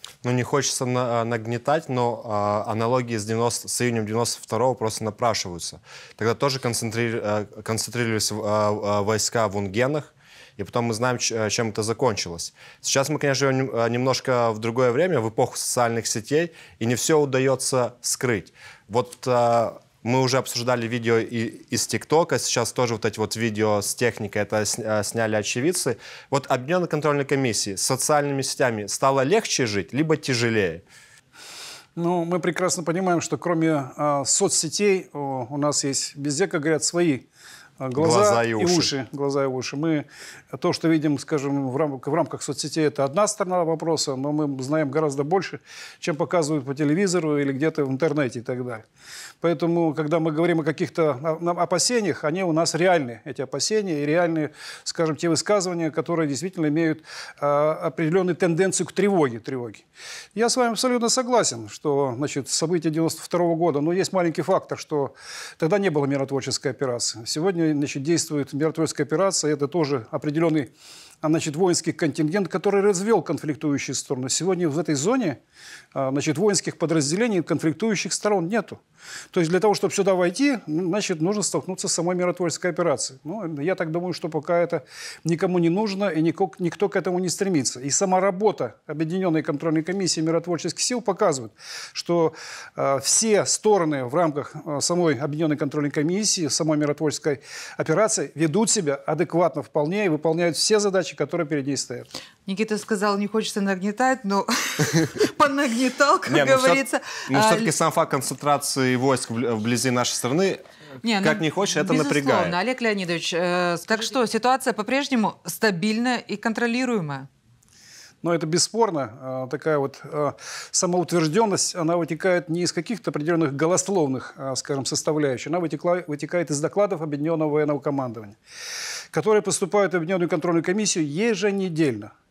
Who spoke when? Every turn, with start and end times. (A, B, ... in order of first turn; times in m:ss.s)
0:00.2-0:30.8 A
0:32.0-0:37.3 B
0:37.8-0:48.9 B
0:38.0-0:38.9 A
0:49.4-1:10.7 B
1:11.2-1:15.4 B
1:15.9-1:18.8 B
1:19.3-1:42.1 B
1:42.5-1:47.7 C
1:46.3-1:50.6 A
1:51.0-1:57.3 C
1:51.2-1:52.6 A
1:58.2-2:08.4 B
2:09.1-2:12.1 B